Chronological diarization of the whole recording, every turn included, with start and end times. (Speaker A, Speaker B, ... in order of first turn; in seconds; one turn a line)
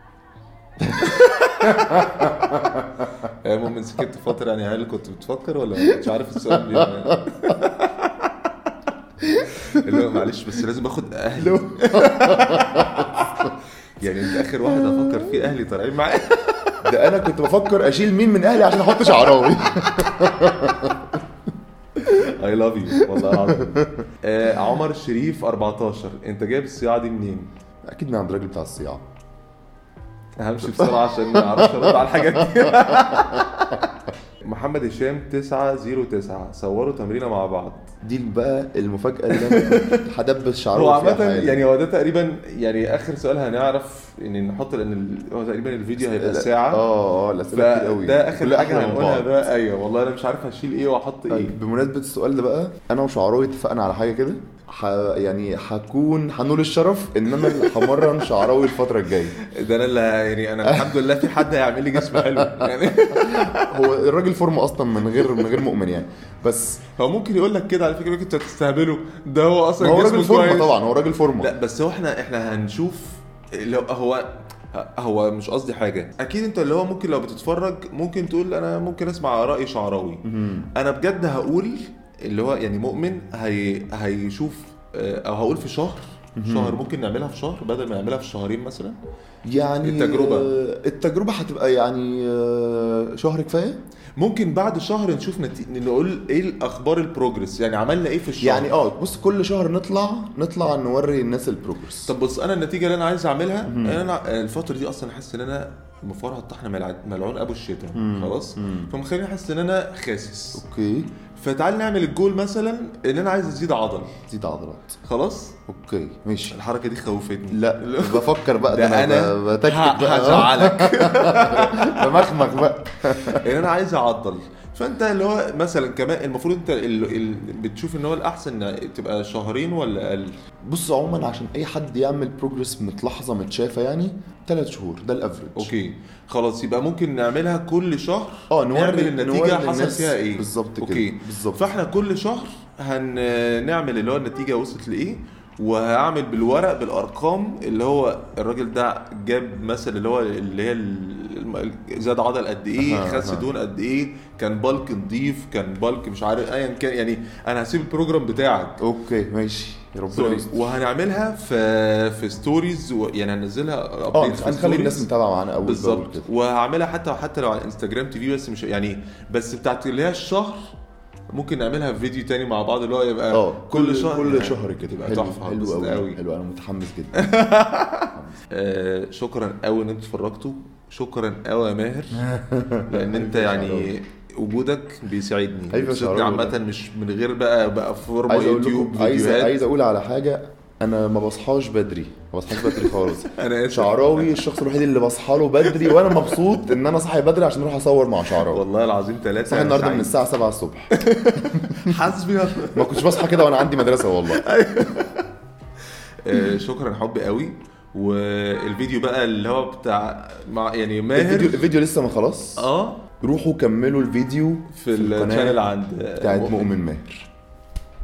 Speaker A: 0.8-3.1
Speaker B: 1.6-2.0
Speaker B: 3.2-8.5
Speaker A: 5.9-7.2
Speaker A: 9.2-10.2
Speaker B: 9.6-16.8
Speaker A: 11.4-13.5
Speaker A: 14.7-15.2
Speaker A: 16.8-21.2
Speaker B: 22.0-27.5
Speaker A: 22.9-24.1
Speaker A: 27.8-29.0
Speaker B: 30.4-37.9
Speaker A: 30.6-33.5
Speaker A: 38.0-41.6
Speaker B: 39.3-40.0
Speaker B: 40.7-46.8
Speaker A: 46.0-49.4
Speaker B: 47.5-51.6
Speaker A: 51.3-59.4
Speaker B: 57.5-58.2
Speaker B: 59.4-63.9
Speaker A: 60.6-66.8
Speaker B: 67.0-70.8
Speaker A: 69.8-71.5
Speaker B: 71.4-89.0
Speaker A: 80.2-80.7
Speaker A: 86.3-86.8
Speaker A: 89.4-93.8
Speaker B: 89.8-90.5
Speaker B: 94.2-98.7
Speaker A: 98.4-102.1
Speaker B: 102.0-110.6
Speaker A: 103.7-104.0
Speaker A: 107.9-108.9
Speaker A: 110.5-111.1
Speaker B: 111.3-114.2
Speaker A: 114.3-115.0
Speaker B: 115.0-115.6
Speaker A: 115.7-116.6
Speaker B: 116.5-130.4
Speaker A: 117.5-123.7
Speaker A: 130.6-135.7
Speaker B: 135.6-158.8
Speaker A: 138.5-141.7
Speaker A: 152.8-153.5
Speaker A: 158.8-160.7
Speaker B: 160.1-165.1
Speaker A: 164.1-166.3
Speaker B: 165.6-170.7
Speaker B: 171.3-176.2
Speaker A: 173.3-177.3
Speaker B: 177.1-182.3
Speaker A: 178.1-178.4
Speaker A: 182.1-183.9
Speaker B: 182.9-189.6
Speaker A: 185.7-186.6
Speaker A: 188.3-198.6
Speaker B: 192.8-194.4
Speaker B: 195.7-196.1
Speaker B: 198.4-200.1
Speaker A: 199.5-202.1
Speaker B: 200.9-203.5
Speaker A: 202.7-204.5
Speaker B: 204.2-205.3
Speaker B: 206.2-211.6
Speaker A: 211.1-215.6
Speaker B: 212.6-213.1
Speaker B: 214.7-216.7
Speaker A: 216.2-217.3